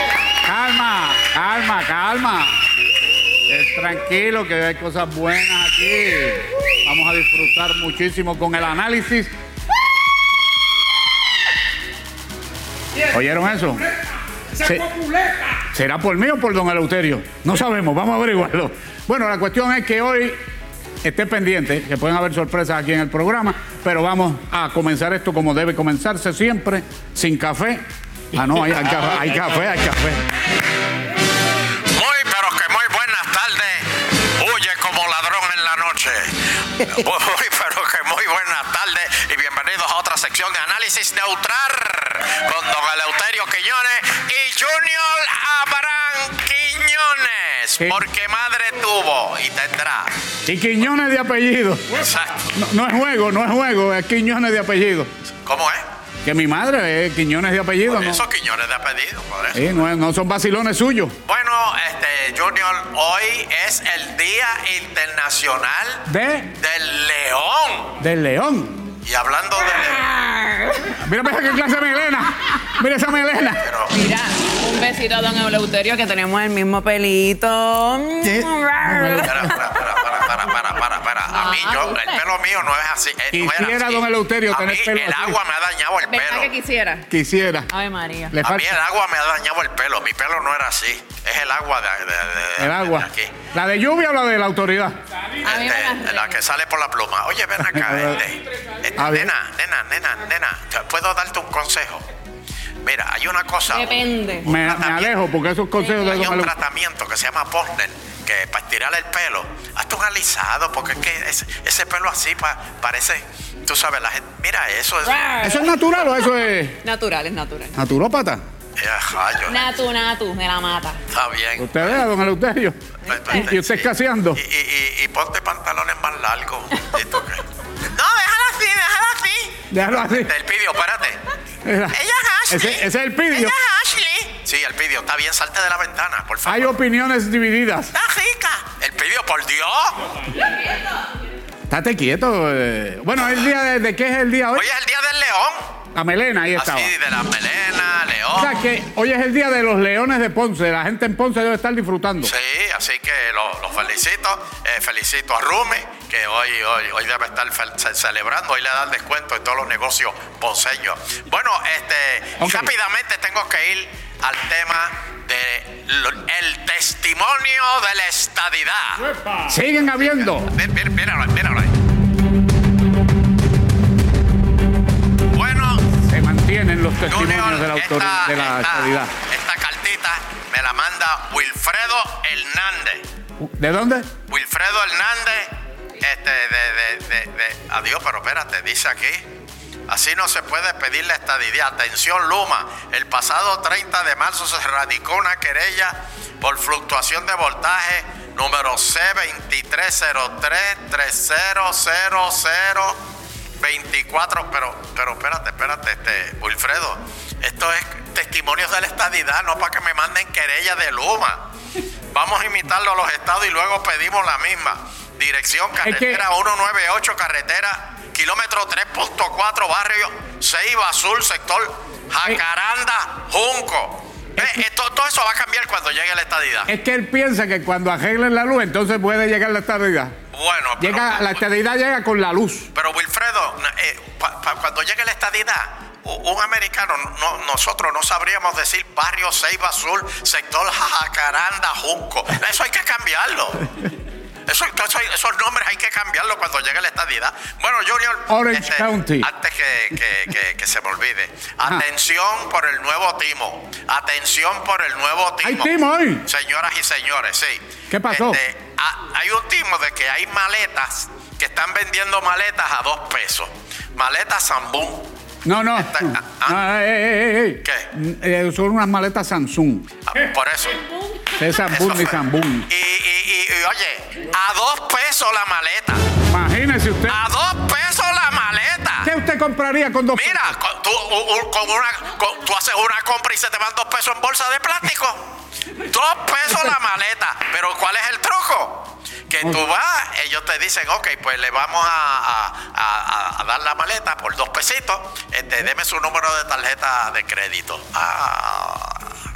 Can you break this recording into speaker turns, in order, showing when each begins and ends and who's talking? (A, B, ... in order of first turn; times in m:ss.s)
0:00.4-0:02.6 A
0:03.5-0:09.3 A
0:13.1-0:13.9 A
0:14.6-0:20.4 A
0:21.0-0:27.8 A
0:28.3-0:30.3 A
0:31.9-0:50.1 B
0:50.4-0:55.1 A
0:51.9-0:52.4 B
0:55.5-0:55.8 B
0:56.2-0:58.2 A
0:57.9-0:59.8 B
0:59.5-1:01.2 A
1:01.3-1:08.0 B
1:06.1-1:06.5 A
1:08.0-1:08.9 A
1:09.0-1:10.1 B
1:10.1-1:10.9 C
1:10.9-1:13.7 A
1:13.6-1:14.0 B
1:13.9-1:19.5 C
1:18.2-1:19.6 A
1:19.2-1:26.5 B
1:21.3-1:22.2 C
1:23.3-1:25.4 A
1:26.0-1:27.1 C
1:27.1-1:27.7 A
1:27.7-1:28.4 C
1:28.3-1:28.8 A
1:28.4-1:33.4 B
1:32.6-1:35.0 A
1:35.4-1:36.3 C
1:35.4-1:42.0 B
1:37.7-1:38.2 A
1:39.0-1:39.3 A
1:42.8-1:45.1 B
1:43.7-1:44.5 C
1:44.5-1:46.5 A
1:46.0-1:55.3 B
1:55.0-1:55.7 C
1:55.4-1:56.8 A
1:56.8-1:57.8 C
1:57.8-1:58.4 A
1:58.8-1:59.7 B
1:59.4-2:01.0 C
2:01.1-2:02.0 B
2:01.6-2:02.8 A
2:03.1-2:11.2 B
2:03.1-2:03.4 C
2:03.3-2:04.4 A
2:09.7-2:10.3 A
2:11.6-2:12.0 A
2:11.9-2:16.7 B
2:12.5-2:13.6 A
2:16.5-2:17.9 A
2:17.9-2:20.0 B
2:21.7-2:24.7 A
2:24.6-2:25.6 B
2:26.0-2:26.9 A
2:26.6-2:28.6 B
2:28.4-2:32.3 A
2:32.2-2:49.1 B
2:42.4-2:42.7 A
2:49.4-2:50.5 A
2:49.8-2:51.7 B
2:55.3-2:55.9 B
2:55.9-2:59.1 A
2:57.1-3:03.0 B
3:03.4-3:04.1 A
3:04.3-3:09.3 B
3:09.9-3:23.0 B
3:23.6-3:31.4 B
3:32.1-3:46.7 B
3:35.8-3:36.2 A
3:46.7-3:50.1 A
3:50.3-3:51.4 B
3:50.8-3:52.7 A
3:52.7-4:03.7 B
4:04.5-4:25.1 B
4:08.3-4:09.3 A
4:15.4-4:16.2 A
4:17.9-4:18.4 A
4:25.4-4:29.9 A
4:25.8-4:26.6 B
4:30.1-4:30.8 B
4:31.4-4:32.7 A
4:31.7-4:36.0 B
4:36.3-4:37.2 A
4:37.1-4:39.1 B
4:39.0-4:40.5 A
4:40.1-4:45.2 B
4:45.8-4:59.1 B